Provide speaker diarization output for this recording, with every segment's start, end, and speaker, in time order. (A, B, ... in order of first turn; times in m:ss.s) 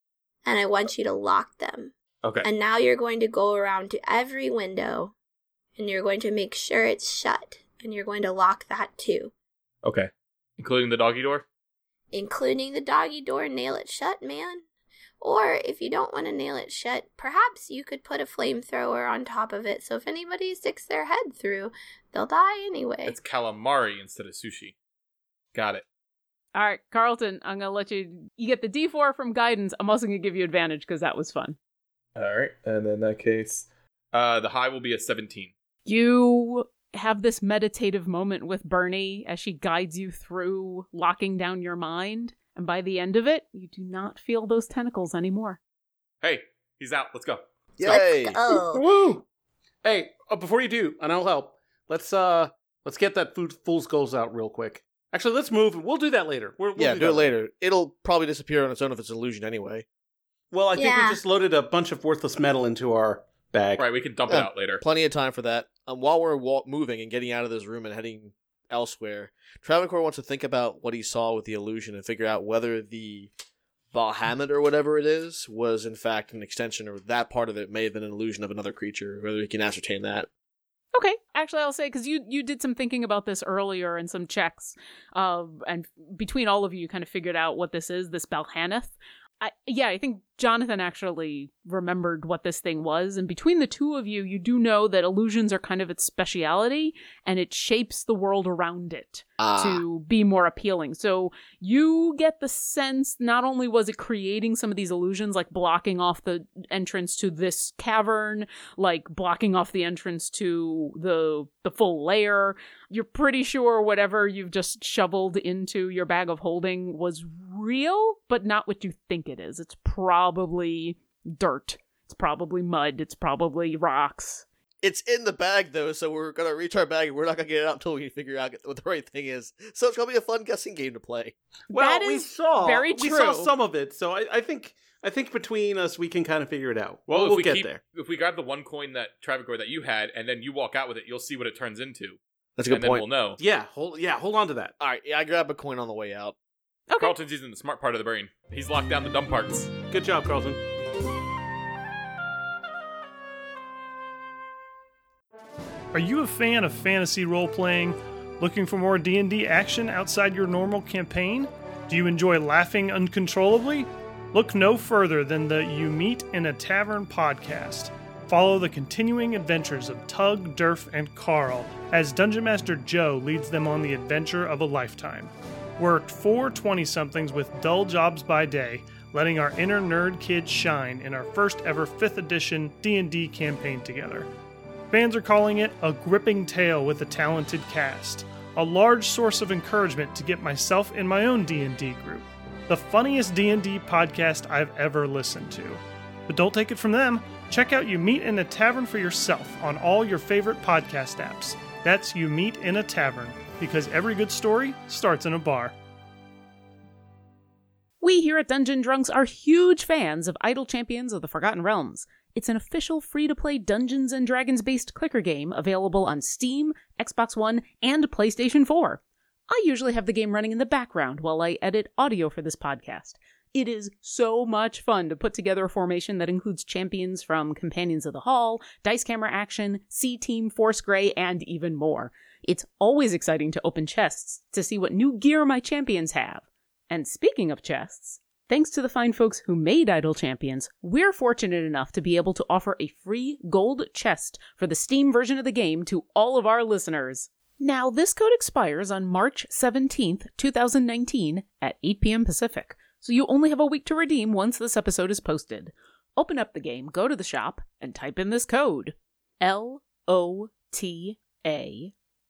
0:00.4-0:05.1 A
0:02.2-0:02.5 B
0:05.8-0:09.3 A
0:09.8-0:11.4 B
0:12.1-0:14.6 A
0:15.2-0:23.2 A
0:23.0-0:24.8 B
0:25.5-0:25.8 B
0:26.6-0:31.6 C
0:32.2-0:35.5 B
0:35.9-0:45.6 C
0:46.2-0:47.5 B
0:47.8-0:48.4 D
0:47.8-0:48.9 A
0:48.5-0:49.2 E
0:49.8-0:57.3 E
0:56.8-0:59.8 D
1:00.5-1:03.8 E
1:00.8-1:01.2 A
1:03.8-1:04.8 B
1:04.3-1:13.3 D
1:13.9-1:20.3 D
1:20.9-2:04.4 C
1:39.4-1:39.8 D
2:04.8-2:11.4 D
2:11.7-2:13.5 C
2:11.7-2:17.8 E
2:17.1-2:23.4 B
2:22.6-2:23.1 D
2:23.4-2:24.7 E
2:24.8-2:26.4 D
2:27.0-2:29.7 B
2:29.9-2:30.6 E
2:35.9-3:04.3 F
3:04.9-3:25.8 F
3:28.0-4:21.9 C